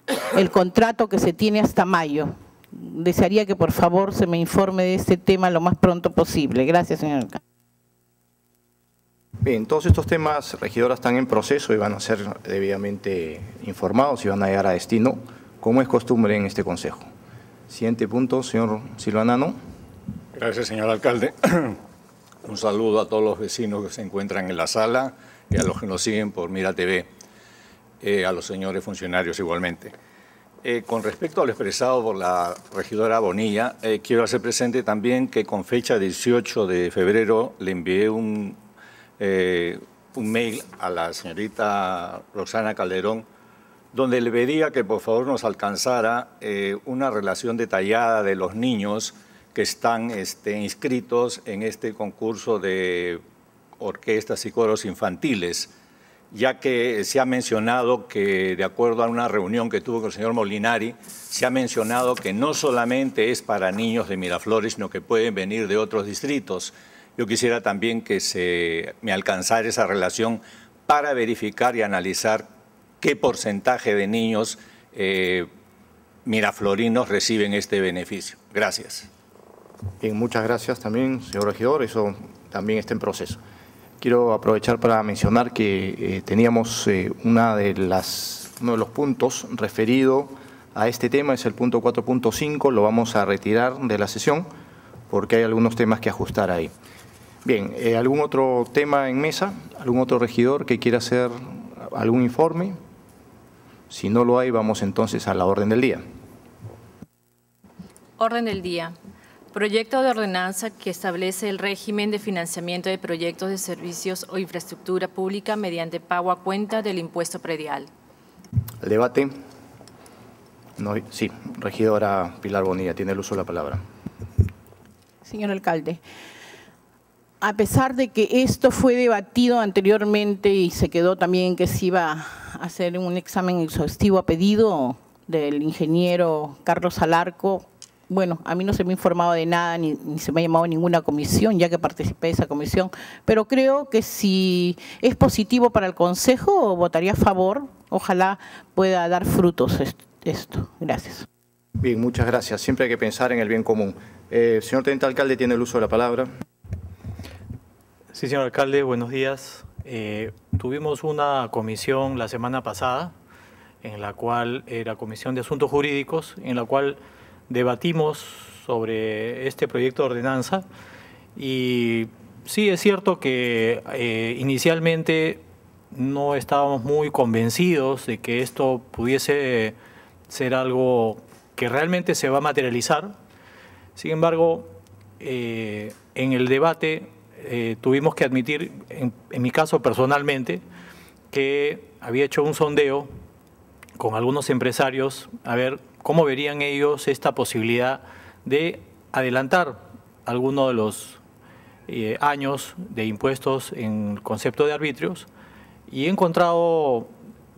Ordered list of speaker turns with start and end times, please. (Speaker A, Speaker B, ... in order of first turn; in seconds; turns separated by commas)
Speaker A: 0.3-7.4, Speaker B: 9.4-17.1, Speaker B: 17.7-19.6, Speaker C: 20.4-21.8, Speaker C: 22.4-27.1, Speaker C: 28.0-29.9, Speaker C: 30.6-38.6, Speaker C: 39.2-43.3, Speaker C: 43.9-53.2, Speaker C: 53.8-55.7, Speaker C: 56.3-72.5, Speaker C: 73.0-75.5, Speaker C: 76.2-79.1, Speaker B: 80.0-83.4, Speaker B: 84.0-94.5, Speaker B: 95.1-96.7, Speaker B: 97.5-102.8, Speaker B: 103.9-106.0, Speaker D: 108.2-108.9, Speaker D: 109.5-117.9, Speaker B: 118.8-119.4, Speaker B: 120.8-123.8, Speaker A: 125.2-126.0, Speaker A: 127.4-151.3, Speaker B: 151.8-156.3, Speaker E: 158.1-163.1, Speaker E: 163.8-170.7, Speaker E: 171.4-175.4, Speaker E: 175.9-179.8, Speaker E: 180.3-183.1, Speaker E: 184.0-190.6, Speaker E: 191.3-193.1, Speaker E: 194.0-201.2, Speaker E: 201.9-205.3, Speaker E: 205.9-207.1